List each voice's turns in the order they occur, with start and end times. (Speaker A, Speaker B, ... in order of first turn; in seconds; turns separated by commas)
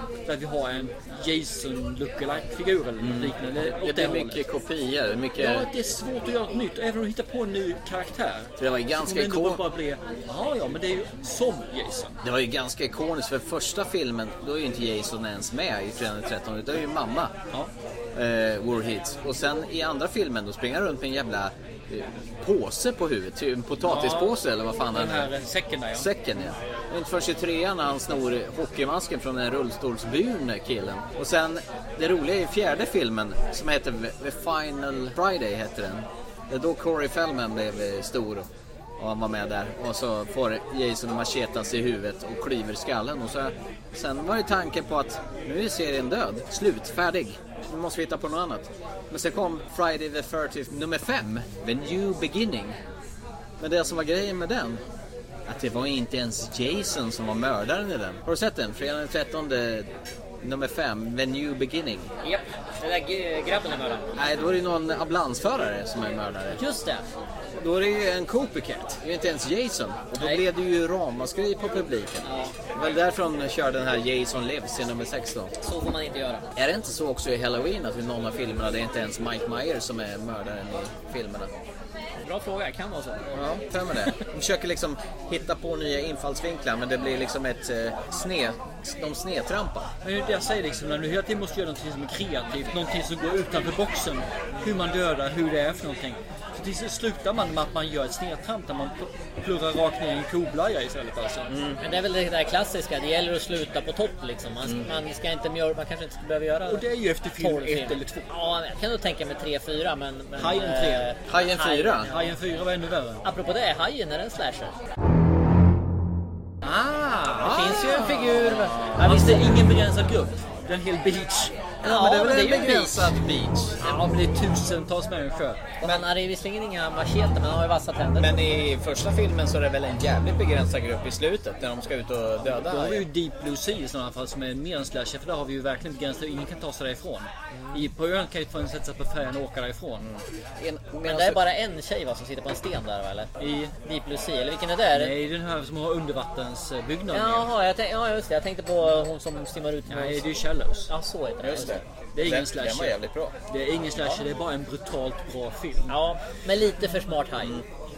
Speaker A: 0.2-4.4, Speaker B: 3.0-5.7, Speaker A: 5.4-12.2, Speaker B: 8.6-9.6, Speaker B: 12.2-17.3, Speaker B: 18.1-25.3, Speaker A: 23.8-24.4, Speaker A: 24.9-26.1, Speaker B: 25.9-52.8, Speaker B: 53.6-54.8, Speaker B: 55.5-59.9, Speaker B: 60.4-62.1, Speaker C: 62.2-64.2, Speaker B: 64.2-66.6, Speaker C: 66.5-67.0, Speaker B: 67.6-75.5, Speaker C: 70.2-70.4, Speaker C: 72.2-72.5, Speaker C: 75.6-76.5, Speaker B: 76.5-81.5, Speaker C: 82.2-83.5, Speaker B: 83.3-89.9, Speaker A: 90.0-101.5, Speaker B: 101.5-101.8, Speaker C: 101.8-106.8, Speaker A: 106.7-108.3, Speaker C: 107.4-112.3, Speaker A: 110.4-111.1, Speaker B: 111.3-112.1, Speaker A: 112.0-113.2, Speaker C: 113.2-114.7, Speaker A: 116.6-121.6, Speaker B: 117.4-119.0, Speaker C: 117.4-119.6, Speaker B: 121.8-123.8, Speaker C: 121.8-123.1, Speaker A: 123.8-125.7, Speaker C: 125.8-128.4, Speaker B: 128.2-133.1, Speaker A: 132.6-140.1, Speaker B: 140.0-141.4, Speaker C: 141.0-145.1, Speaker A: 143.4-143.7, Speaker A: 144.9-147.5, Speaker C: 147.1-150.2, Speaker A: 149.9-150.9, Speaker C: 150.9-151.8, Speaker B: 151.4-153.3, Speaker A: 152.1-153.0, Speaker A: 153.5-155.9, Speaker C: 155.9-157.6